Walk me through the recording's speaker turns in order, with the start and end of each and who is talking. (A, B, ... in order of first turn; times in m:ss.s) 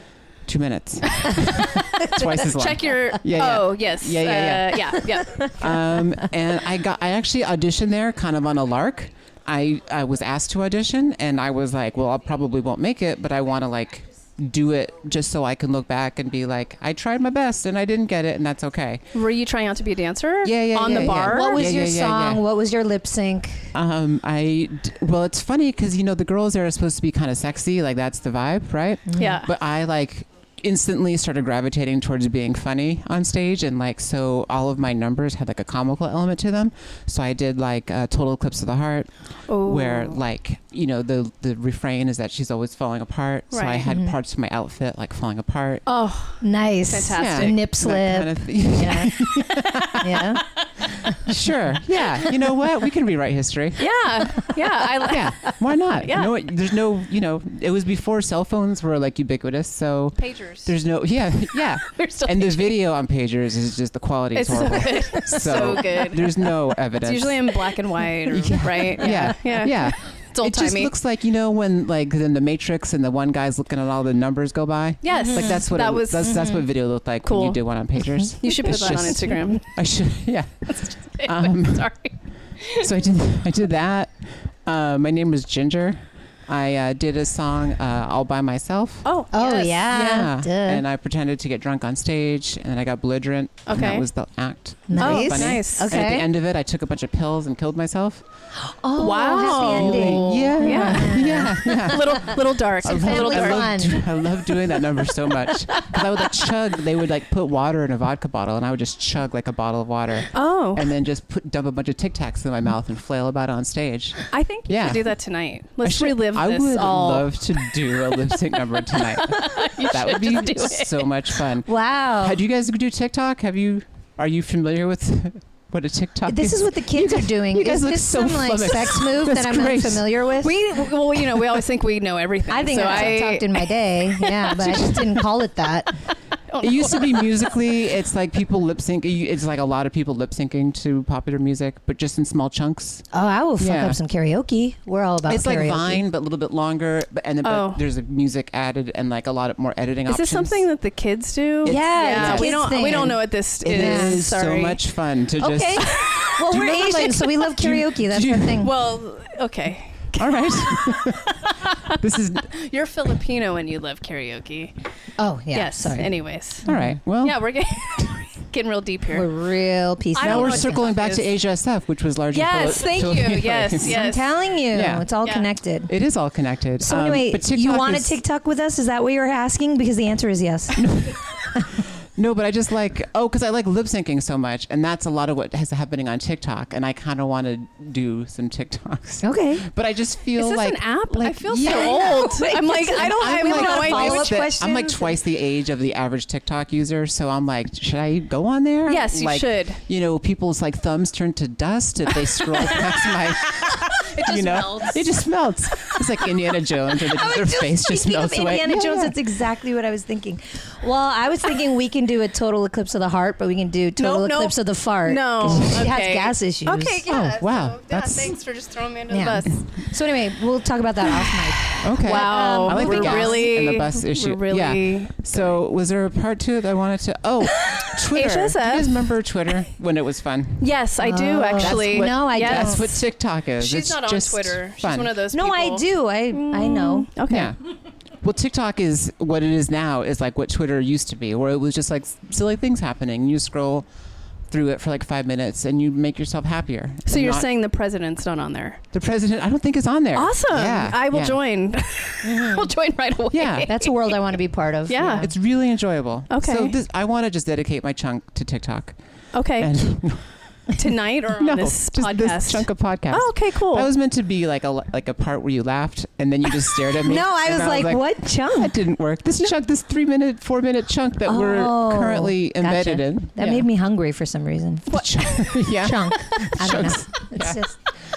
0:00.4-0:19.1 A
0:02.1-0:05.5 B
0:05.3-0:05.8 C
0:19.1-0:21.7 B
0:20.4-0:22.4 A
0:20.9-0:23.7 C
0:23.7-0:45.8 A
0:29.1-0:29.4 C
0:29.2-0:29.5 B
0:39.5-0:40.2 B
0:43.5-0:43.8 B
0:43.9-0:44.2 C
0:45.9-0:47.6 B
0:46.4-0:50.4 C
0:47.1-0:50.4 A
0:51.0-0:51.3 C
0:51.1-0:54.5 A
0:53.8-0:56.3 B
0:55.0-1:21.9 A
1:00.2-1:00.7 B
1:01.8-1:02.8 B
1:04.3-1:10.9 B
1:15.0-1:16.5 B
1:15.1-1:15.6 C
1:16.2-1:16.7 C
1:17.2-1:17.6 B
1:18.4-1:19.7 B
1:18.4-1:19.4 C
1:20.7-1:22.9 B
1:22.8-1:29.1 A
1:29.0-1:29.9 B
1:29.3-1:30.8 C
1:29.9-1:38.2 A
1:33.7-1:34.1 B
1:34.9-1:36.3 C
1:35.0-1:36.1 B
1:38.6-1:44.0 C
1:39.0-1:43.9 B
1:39.5-1:55.1 A
1:50.3-1:50.9 B
1:54.3-1:57.7 B
1:55.8-2:10.2 A
1:58.8-2:01.4 B
2:01.7-2:02.4 C
2:06.3-2:10.6 C
2:10.4-2:14.9 B
2:12.5-2:15.9 C
2:12.8-2:13.2 A
2:14.6-2:15.1 A
2:16.5-2:17.6 B
2:16.6-2:23.0 A
2:23.1-2:26.0 C
2:23.6-2:24.0 A
2:25.3-2:30.7 A
2:27.4-2:27.8 B
2:30.1-2:34.8 B
2:31.6-2:32.8 A
2:31.7-2:34.2 C
2:33.6-2:38.6 A
2:35.4-2:38.7 C
2:35.9-2:37.0 B
2:38.6-2:41.1 B
2:40.2-2:42.5 A
2:42.5-2:44.8 B
2:45.2-2:47.0 C
2:45.5-2:46.7 B
2:46.6-2:47.5 A
2:47.2-2:49.3 B
2:49.1-2:50.9 C
2:50.1-2:51.3 B
2:50.2-2:54.0 A
2:52.3-2:54.3 B
2:53.8-2:55.9 C
2:54.7-2:55.1 A
2:55.2-2:55.5 B
2:55.9-2:58.2 A
2:56.8-3:01.1 C
3:00.8-3:01.2 A
3:02.2-3:29.1 A
3:09.2-3:09.7 C
3:10.4-3:14.5 B
3:11.6-3:15.2 C
3:18.9-3:19.8 B
3:22.4-3:23.1 B
3:24.0-3:25.2 B
3:26.9-3:37.0 C
3:34.0-3:39.6 B
3:37.1-3:38.4 A
3:39.1-3:43.5 C
3:41.8-3:50.8 A
3:41.9-3:45.5 B
3:47.6-3:49.1 B
3:50.6-3:52.9 B
3:51.0-3:53.0 C
3:51.6-3:55.2 A
3:53.6-3:57.5 B
3:55.3-3:57.1 C
3:57.3-3:57.6 A
3:58.2-4:03.9 A
4:04.5-4:07.5 A
4:07.1-4:08.8 B
4:08.9-4:11.4 A
4:10.2-4:14.0 B
4:12.2-4:12.7 C
4:13.3-4:13.7 A
4:13.7-4:15.3 C
4:14.9-4:15.3 B
4:15.1-4:19.0 A
4:16.3-4:16.8 B
4:19.3-4:19.8 B
4:19.6-4:20.2 A
4:20.8-4:23.9 B
4:21.4-4:33.6 A
4:27.0-4:28.8 C
4:31.2-4:35.0 C
4:34.9-4:35.7 B
4:34.9-4:37.7 A
4:35.7-4:37.8 C